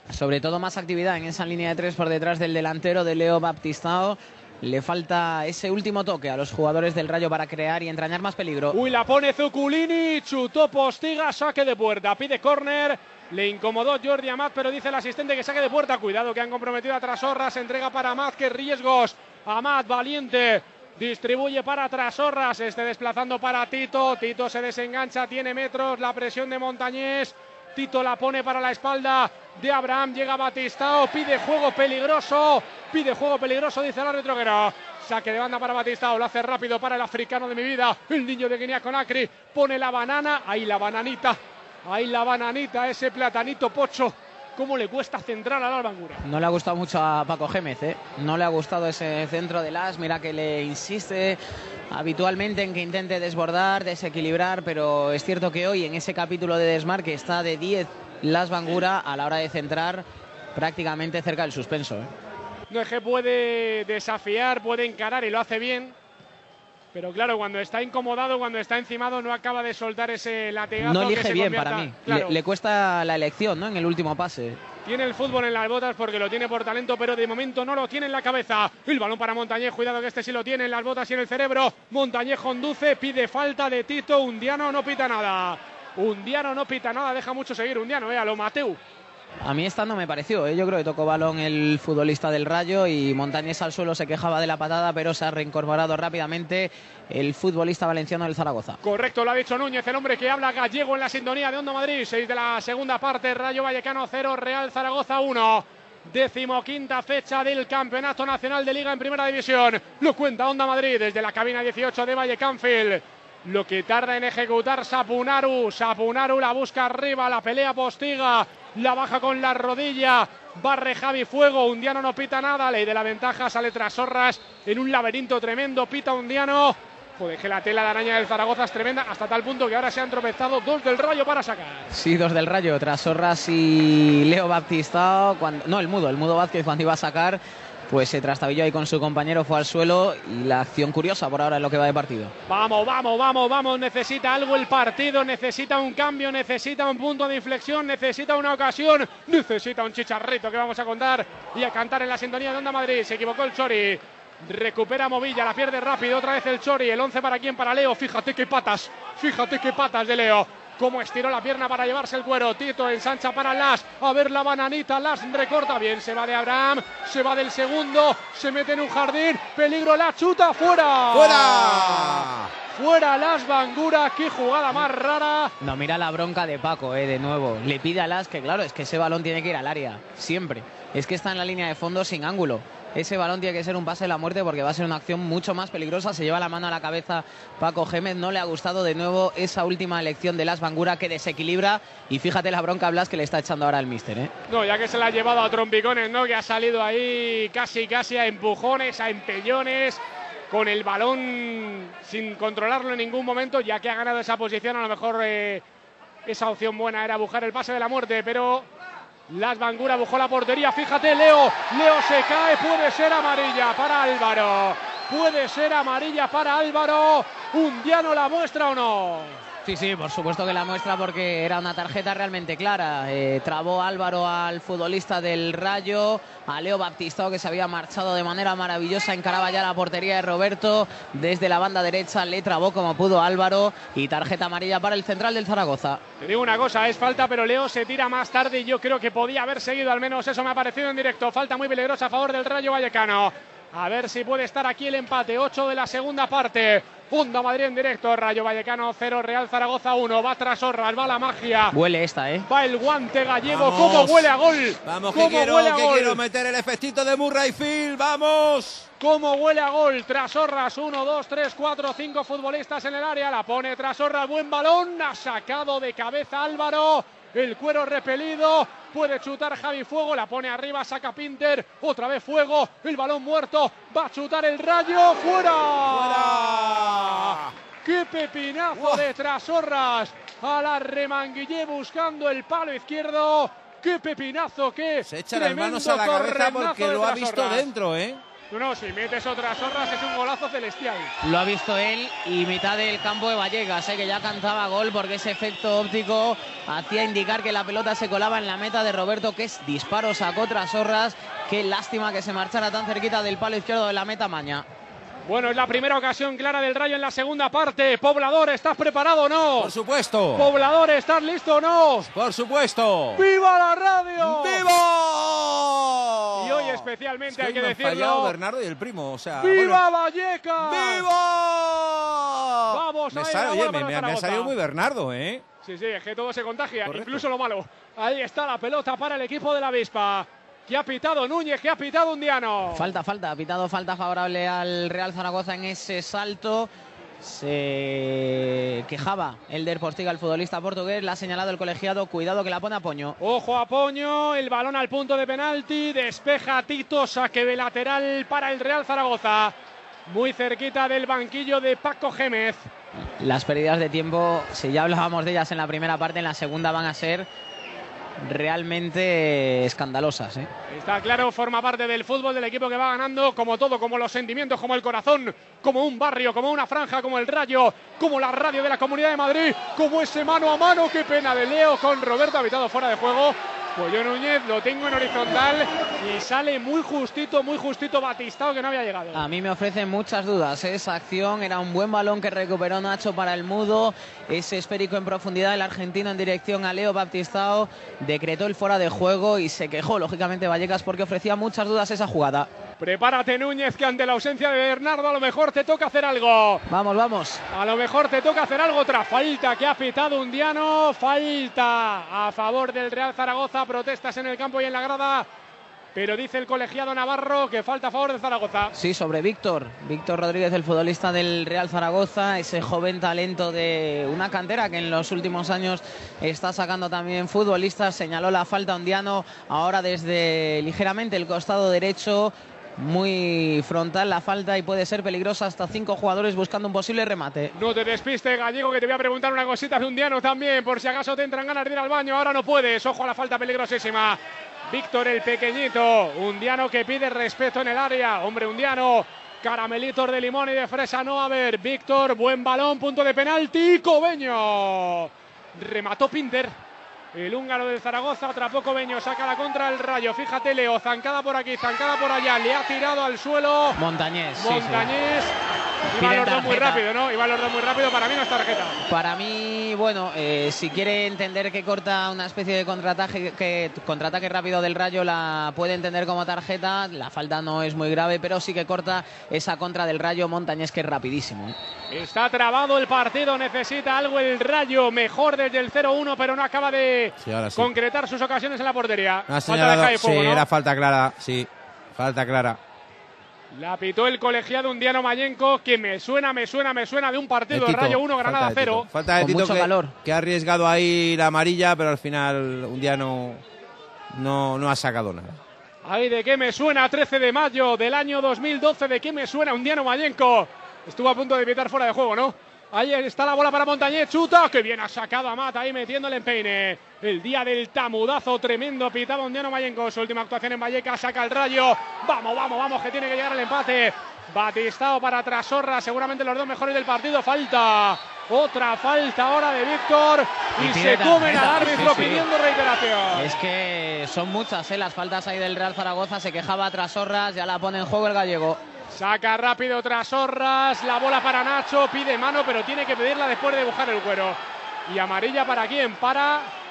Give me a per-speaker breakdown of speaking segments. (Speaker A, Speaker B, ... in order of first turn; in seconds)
Speaker A: 0.1-8.8, 46.2-51.4, 51.9-62.1, 70.8-74.6, 89.4-98.8, 131.9-142.3, 175.6-194.3, 219.7-236.0, 251.7-252.5, 291.2-304.7, 332.7-336.7, 337.2-343.2, 353.2-357.3, 358.2-360.5, 379.1-392.5, 396.7-397.4, 408.8-427.5, 453.8-454.9, 456.0-456.8, 458.9-471.6, 489.2-489.9, 520.6-522.2, 523.1-528.6
Speaker B: 8.7-46.2, 62.7-66.0, 66.9-72.4, 74.8-88.8, 98.8-131.9, 142.5-175.5, 194.5-205.6, 206.3-208.7, 209.3-219.4, 236.2-251.8, 252.5-256.2, 259.0-287.7, 288.5-291.1, 305.3-309.7, 310.4-312.1, 313.2-314.7, 316.4-318.4, 319.4-321.1, 322.7-324.5, 325.6-332.9, 343.2-349.6, 350.1-352.7, 360.7-379.2, 392.8-396.6, 397.5-405.3, 405.9-408.7, 427.6-434.2, 434.7-446.5, 447.1-453.8, 454.4-455.3, 455.9-458.8, 471.9-480.5, 483.5-488.9, 495.8-523.4, 528.9-536.5
Speaker C: 171.1-172.5, 253.5-258.9, 275.9-277.6, 278.7-279.1, 285.1-288.2, 309.6-310.5, 312.0-313.3, 314.2-319.8, 320.6-325.4, 326.9-327.2, 477.2-477.7, 479.3-482.6, 487.5-493.4, 494.1-495.4